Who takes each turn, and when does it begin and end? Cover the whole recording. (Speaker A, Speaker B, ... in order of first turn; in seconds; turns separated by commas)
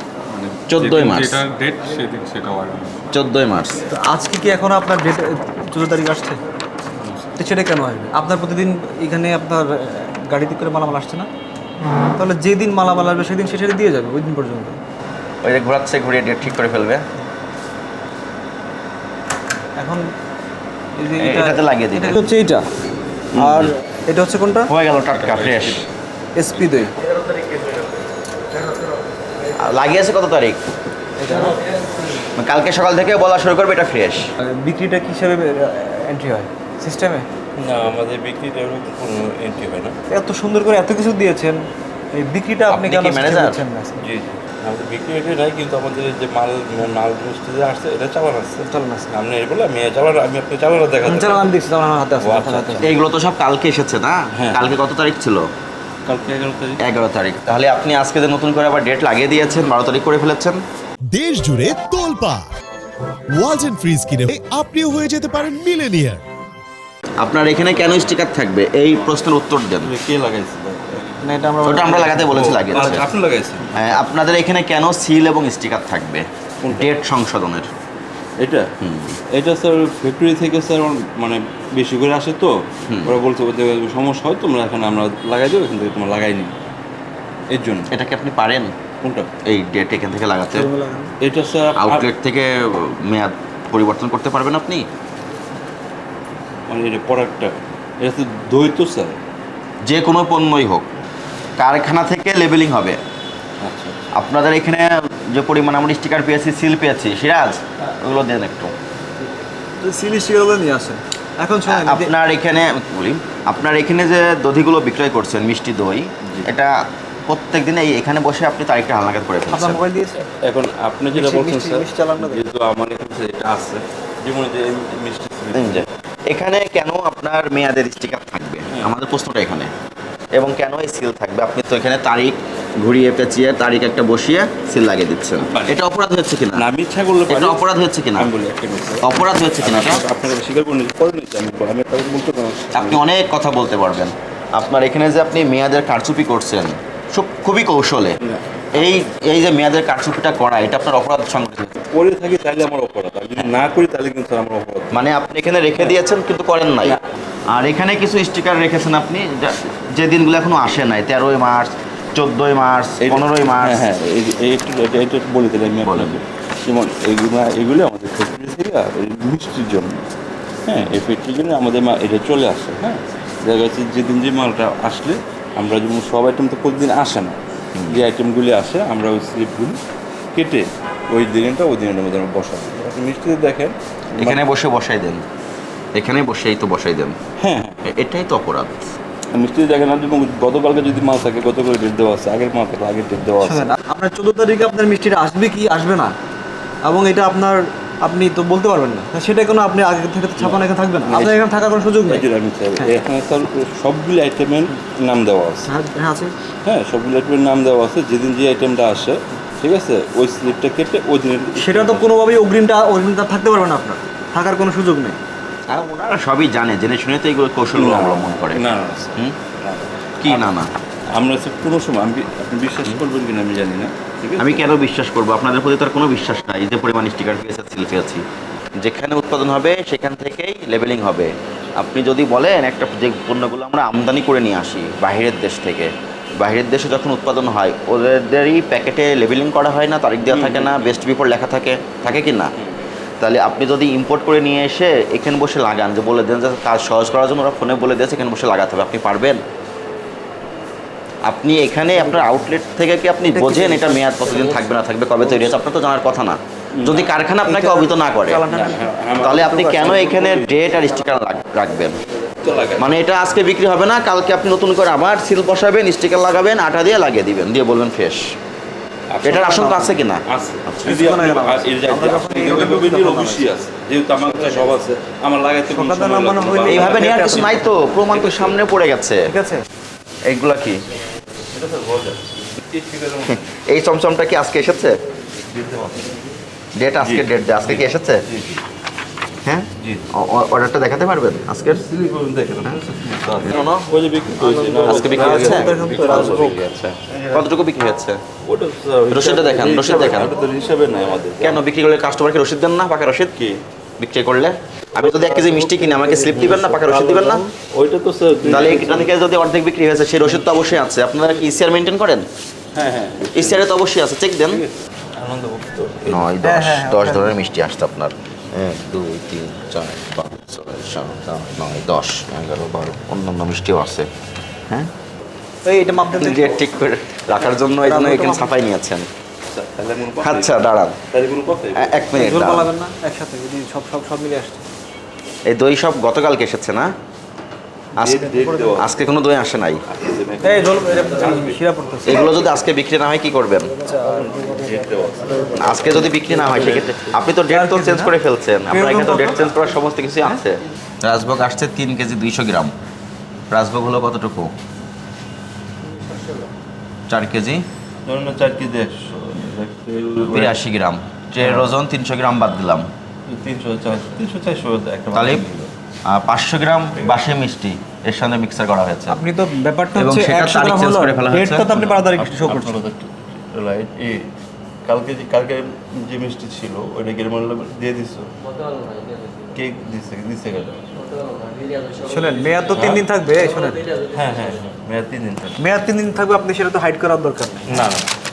Speaker A: 0.3-3.1, Speaker B: 0.7-1.4, Speaker B: 3.1-3.8, Speaker C: 3.9-6.4, Speaker A: 7.0-7.3, Speaker C: 7.4-11.3, Speaker C: 12.2-14.8, Speaker B: 15.4-17.0, Speaker C: 19.8-20.0, Speaker C: 20.9-22.6, Speaker B: 21.2-22.2, Speaker B: 23.3-23.7, Speaker C: 23.3-24.7, Speaker B: 24.7-25.9, Speaker A: 25.1-25.9, Speaker C: 26.4-26.9, Speaker D: 27.0-28.0, Speaker B: 29.5-30.6, Speaker C: 31.2-31.6, Speaker B: 32.4-34.2, Speaker C: 34.4-37.3, Speaker D: 37.6-40.0, Speaker C: 40.1-44.0, Speaker B: 42.7-43.6, Speaker D: 44.0-51.5, Speaker C: 48.6-49.1, Speaker C: 51.0-52.9, Speaker D: 52.2-52.9, Speaker B: 52.8-55.5, Speaker D: 54.3-54.8, Speaker D: 56.0-56.8, Speaker B: 56.8-60.6, Speaker E: 61.1-62.5, Speaker E: 63.4-66.2, Speaker B: 67.2-69.9, Speaker D: 69.8-71.2, Speaker C: 71.2-72.9, Speaker B: 71.6-73.0, Speaker D: 72.3-74.0, Speaker B: 73.8-77.7, Speaker D: 76.6-76.9, Speaker D: 78.4-78.7, Speaker B: 78.8-79.2, Speaker D: 79.3-86.5, Speaker B: 82.9-83.2, Speaker D: 87.5-87.9, Speaker B: 87.9-88.7, Speaker D: 89.0-89.3, Speaker B: 89.4-90.7, Speaker C: 90.5-91.1, Speaker D: 91.2-92.1, Speaker B: 91.8-94.8, Speaker D: 96.7-99.2, Speaker B: 99.8-100.9, Speaker B: 101.6-103.0, Speaker D: 103.6-104.1, Speaker B: 104.1-108.7, Speaker C: 109.8-112.1, Speaker B: 111.7-116.7, Speaker B: 117.3-119.8, Speaker C: 119.5-120.3, Speaker D: 120.4-125.8, Speaker C: 121.1-122.5, Speaker B: 125.5-129.7, Speaker B: 130.3-136.7, Speaker D: 135.5-135.8, Speaker D: 136.5-137.6, Speaker B: 137.3-138.3, Speaker D: 138.2-139.1, Speaker B: 139.0-140.0, Speaker D: 139.6-143.0, Speaker B: 142.7-148.2, Speaker D: 148.2-148.6, Speaker B: 148.7-151.8, Speaker D: 151.9-155.0, Speaker B: 154.9-157.0, Speaker B: 157.5-163.8, Speaker D: 163.0-170.0, Speaker B: 165.8-166.2, Speaker D: 170.7-179.8, Speaker B: 177.7-178.1, Speaker D: 180.3-184.4, Speaker B: 184.2-185.2, Speaker B: 185.9-187.2, Speaker D: 187.4-187.8, Speaker B: 187.9-188.8, Speaker D: 189.3-193.7, Speaker C: 193.4-196.1, Speaker C: 196.8-203.0, Speaker D: 200.4-205.7, Speaker C: 205.6-206.3, Speaker D: 206.6-212.1, Speaker C: 211.6-215.2, Speaker B: 215.7-218.6, Speaker D: 217.7-220.6, Speaker B: 220.2-220.7, Speaker D: 221.1-224.7, Speaker B: 224.4-228.2, Speaker B: 228.8-242.5, Speaker D: 240.2-241.0, Speaker D: 242.5-242.8, Speaker B: 243.2-249.4, Speaker B: 251.2-258.5, Speaker C: 253.3-254.1, Speaker D: 254.3-254.6, Speaker D: 255.2-255.5, Speaker D: 256.8-257.1, Speaker C: 257.4-258.9, Speaker D: 258.5-260.6, Speaker B: 259.2-262.0, Speaker D: 262.4-262.9, Speaker B: 262.8-268.2, Speaker D: 269.1-269.5, Speaker C: 269.2-270.0, Speaker B: 269.2-270.9, Speaker D: 270.2-278.6, Speaker C: 270.8-273.5, Speaker C: 274.2-274.7, Speaker C: 275.7-277.9, Speaker B: 276.7-279.3, Speaker C: 279.2-279.6, Speaker B: 280.2-280.8, Speaker D: 281.5-283.5, Speaker B: 283.3-284.9, Speaker D: 285.4-286.2, Speaker B: 286.8-288.2, Speaker D: 287.0-288.6, Speaker B: 289.4-291.8, Speaker D: 289.8-290.1, Speaker D: 291.7-297.5, Speaker B: 293.4-293.9, Speaker C: 294.4-296.6, Speaker B: 294.8-298.2, Speaker D: 298.4-301.6, Speaker B: 299.1-300.3, Speaker B: 301.4-303.3, Speaker B: 304.0-307.4, Speaker D: 304.9-309.1, Speaker C: 305.9-306.2, Speaker B: 308.4-312.2, Speaker D: 312.7-313.7, Speaker B: 313.3-314.6, Speaker D: 314.4-316.3, Speaker B: 316.1-324.1, Speaker C: 316.4-317.3, Speaker C: 325.6-326.5, Speaker B: 326.1-329.1, Speaker C: 327.8-328.5, Speaker D: 329.4-332.2, Speaker B: 330.2-331.0, Speaker B: 331.7-332.7, Speaker C: 332.1-334.6, Speaker B: 335.5-336.9, Speaker D: 338.0-339.0, Speaker B: 338.0-339.8, Speaker C: 338.0-338.8, Speaker D: 339.8-341.6, Speaker C: 340.4-342.4, Speaker B: 342.1-343.7, Speaker C: 343.8-344.3, Speaker D: 344.0-347.1, Speaker B: 345.6-352.7, Speaker C: 347.5-348.1, Speaker C: 348.7-349.4, Speaker B: 353.5-354.5, Speaker C: 355.9-356.5, Speaker B: 357.1-357.6, Speaker D: 358.1-360.6, Speaker B: 360.3-362.9, Speaker D: 361.4-361.7, Speaker D: 363.3-365.7, Speaker B: 365.1-365.4, Speaker B: 366.1-369.2, Speaker C: 369.1-372.8, Speaker B: 369.9-371.8, Speaker D: 371.7-374.3, Speaker D: 374.9-378.3, Speaker D: 379.5-380.9, Speaker C: 382.0-383.9, Speaker D: 382.7-383.0, Speaker D: 384.1-385.6, Speaker C: 385.6-387.8, Speaker D: 387.7-388.1